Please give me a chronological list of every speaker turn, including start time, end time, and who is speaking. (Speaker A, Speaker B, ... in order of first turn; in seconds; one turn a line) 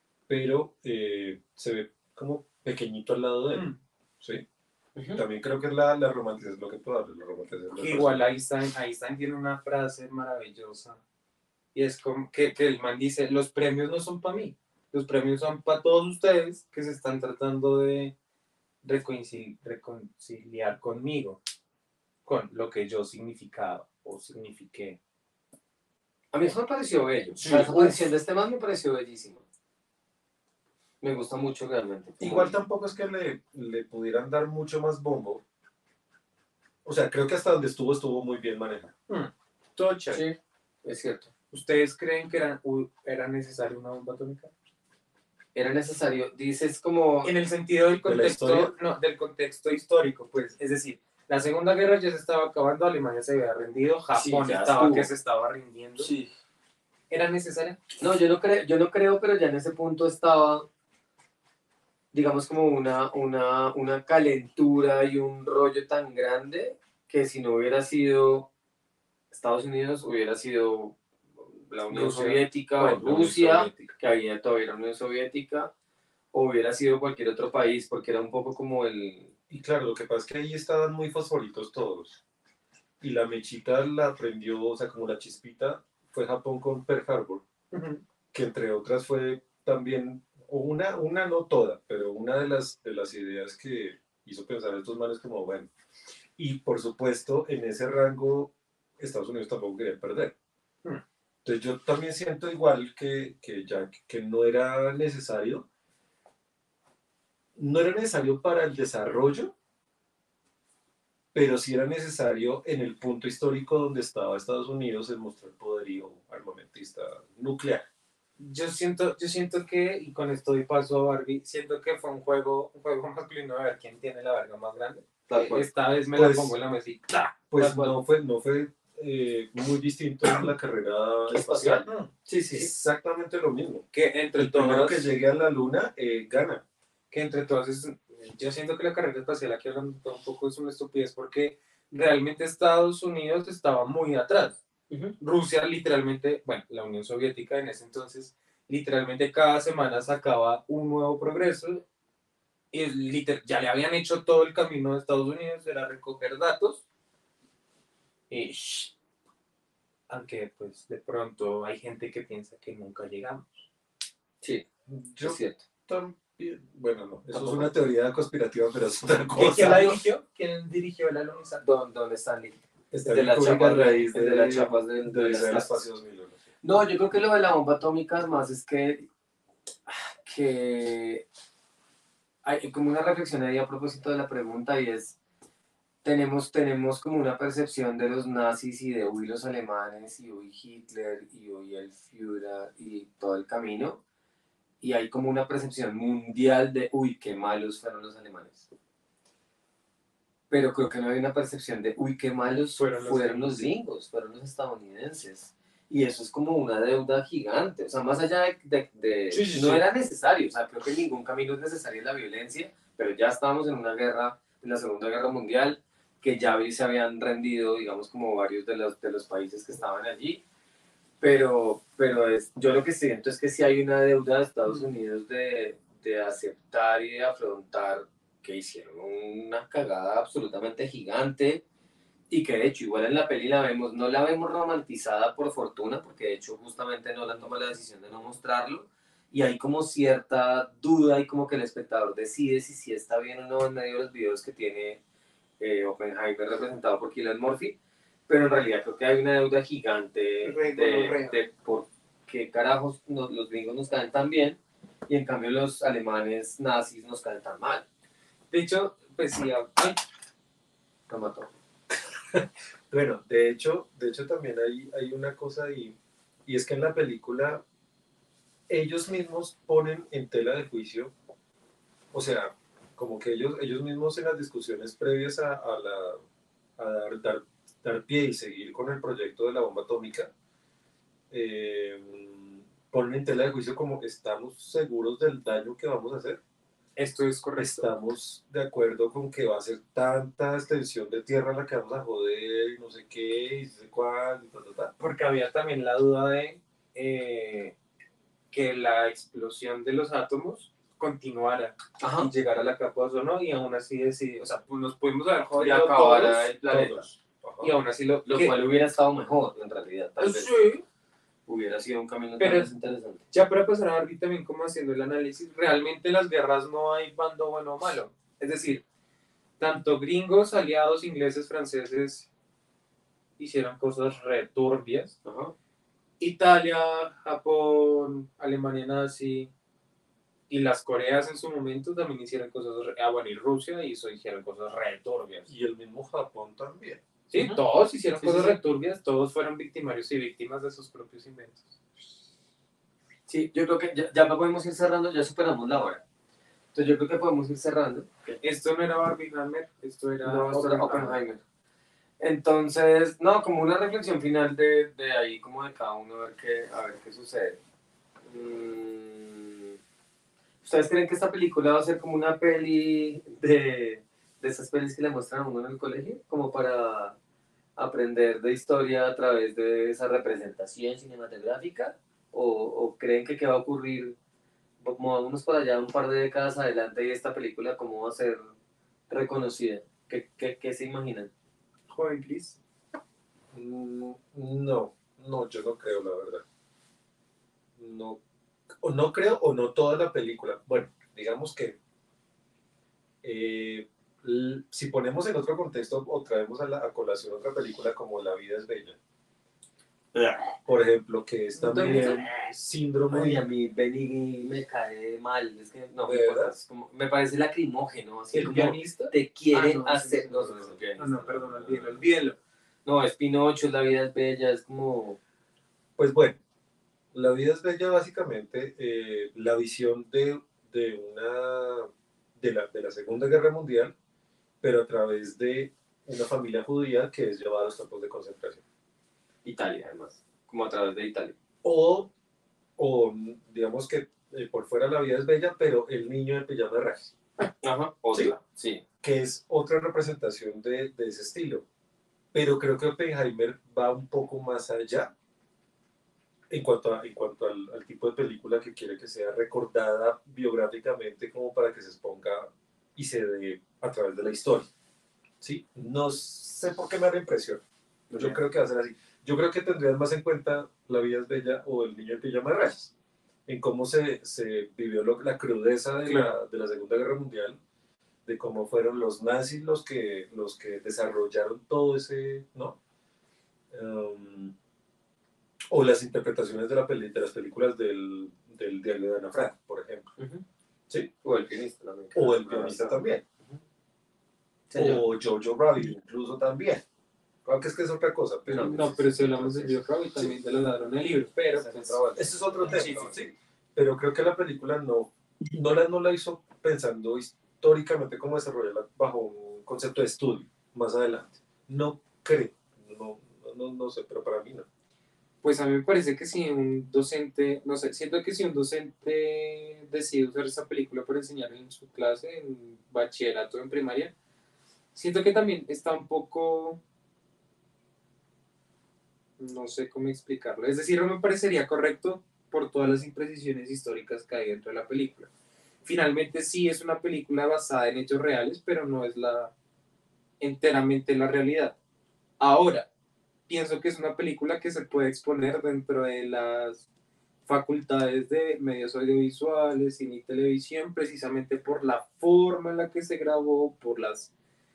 Speaker A: 0.3-3.7
Speaker A: 4.2-4.5
Speaker B: 5.0-5.2
Speaker A: 5.2-8.3
Speaker C: 7.8-11.0
Speaker C: 11.7-18.1
Speaker C: 18.8-21.4
Speaker C: 22.2-25.0
Speaker B: 26.3-29.4
Speaker A: 27.4-28.0
Speaker B: 31.0-32.5
Speaker A: 32.2-35.4
Speaker A: 36.9-38.9
Speaker C: 39.1-40.2
Speaker B: 40.1-41.3
Speaker C: 41.5-44.5
Speaker B: 45.5-47.3
Speaker C: 47.2-56.1
Speaker A: 48.0-48.7
Speaker B: 54.1-55.1
Speaker B: 56.0-56.3
Speaker C: 57.1-57.8
Speaker B: 58.0-60.7
Speaker B: 62.1-68.5
Speaker B: 69.3-71.0
Speaker B: 71.6-75.7
Speaker C: 71.9-72.4
Speaker A: 72.0-73.9
Speaker B: 76.3-79.3
Speaker A: 79.5-82.2
Speaker A: 83.0-87.4
Speaker C: 87.7-88.0
Speaker A: 88.3-95.7
Speaker A: 96.4-100.3
Speaker A: 101.5-105.7
Speaker A: 107.6-109.5
Speaker A: 111.3-117.9
Speaker C: 118.4-127.3
Speaker B: 125.3-125.7
Speaker A: 126.1-126.6
Speaker A: 127.5-131.9
Speaker B: 127.6-128.0
Speaker B: 131.3-132.7
Speaker C: 131.7-132.1
Speaker A: 132.5-133.8
Speaker C: 133.9-135.1
Speaker A: 134.4-136.6
Speaker C: 137.1-144.6
Speaker B: 144.9-145.2
Speaker C: 145.2-151.8
Speaker C: 152.7-156.8
Speaker C: 158.3-158.9
Speaker C: 160.1-163.7
Speaker A: 164.9-170.0
Speaker B: 165.2-165.6
Speaker B: 167.3-167.7
Speaker C: 169.3-171.6
Speaker B: 171.6-175.8
Speaker A: 172.9-176.4
Speaker B: 176.6-179.1
Speaker B: 179.9-181.3
Speaker B: 182.4-185.2
Speaker B: 186.0-194.0
Speaker B: 194.8-198.7
Speaker B: 200.5-220.4
Speaker C: 202.8-203.7
Speaker A: 209.3-209.8
Speaker B: 221.2-231.6
Speaker B: 232.3-245.0
Speaker B: 245.6-247.8
Speaker B: 248.3-257.9
Speaker C: 250.4-251.4
Speaker C: 258.5-260.0
Speaker B: 261.1-261.5
Speaker A: 262.3-267.6
Speaker A: 268.7-271.1
Speaker A: 272.1-276.2
Speaker A: 276.8-280.3
Speaker A: 281.3-286.4
Speaker C: 287.0-287.9
Speaker A: 287.6-294.9
Speaker C: 295.0-297.7
Speaker C: 298.5-308.5
Speaker B: 302.0-302.3
Speaker B: 305.5-307.1
Speaker A: 307.4-307.8
Speaker B: 308.3-310.5
Speaker C: 310.2-310.8
Speaker B: 311.5-313.2
Speaker C: 312.4-312.7
Speaker C: 313.3-318.8
Speaker C: 319.6-322.3
Speaker C: 323.4-325.1
Speaker B: 325.2-325.5
Speaker C: 326.2-329.5
Speaker C: 330.5-335.5
Speaker A: 335.5-337.0
Speaker C: 337.3-341.7
Speaker B: 338.2-338.6
Speaker B: 343.3-346.0
Speaker B: 346.7-348.4
Speaker C: 348.4-351.2
Speaker B: 350.2-351.4
Speaker B: 352.2-357.6
Speaker B: 358.3-359.8
Speaker B: 360.6-367.2
Speaker B: 367.8-374.2
Speaker B: 374.8-378.5
Speaker B: 379.1-381.3
Speaker C: 381.9-382.6
Speaker A: 383.5-386.4
Speaker A: 387.8-388.2
Speaker A: 388.8-391.8
Speaker A: 393.2-399.0
Speaker B: 400.1-400.5
Speaker A: 400.6-403.4
Speaker B: 401.6-402.3
Speaker B: 403.1-411.8
Speaker A: 406.0-406.6
Speaker C: 408.3-412.4
Speaker A: 411.6-412.0
Speaker B: 412.9-415.2
Speaker A: 416.0-416.4
Speaker A: 417.1-423.9
Speaker A: 424.6-428.6
Speaker B: 429.4-431.4
Speaker A: 431.6-432.1
Speaker A: 432.8-437.1
Speaker B: 437.6-438.8
Speaker A: 439.0-441.6
Speaker A: 442.3-445.1
Speaker A: 446.5-454.7
Speaker A: 455.4-457.6
Speaker B: 458.1-458.4
Speaker A: 458.1-462.9
Speaker A: 463.5-467.6
Speaker C: 466.1-466.4
Speaker A: 468.3-472.8
Speaker A: 473.7-474.5
Speaker A: 475.7-480.1
Speaker B: 480.2-480.4
Speaker B: 481.2-483.6
Speaker A: 482.1-483.2
Speaker B: 484.7-485.0
Speaker A: 484.8-486.9
Speaker A: 487.4-490.3
Speaker B: 488.5-489.7
Speaker C: 488.6-492.0
Speaker B: 491.6-493.2
Speaker A: 492.2-504.7
Speaker C: 492.7-493.1
Speaker C: 505.4-514.1
Speaker C: 515.0-516.8
Speaker C: 519.4-525.3
Speaker C: 525.8-529.5
Speaker C: 530.4-531.8
Speaker C: 532.4-532.9
Speaker C: 533.5-536.9
Speaker C: 537.5-544.3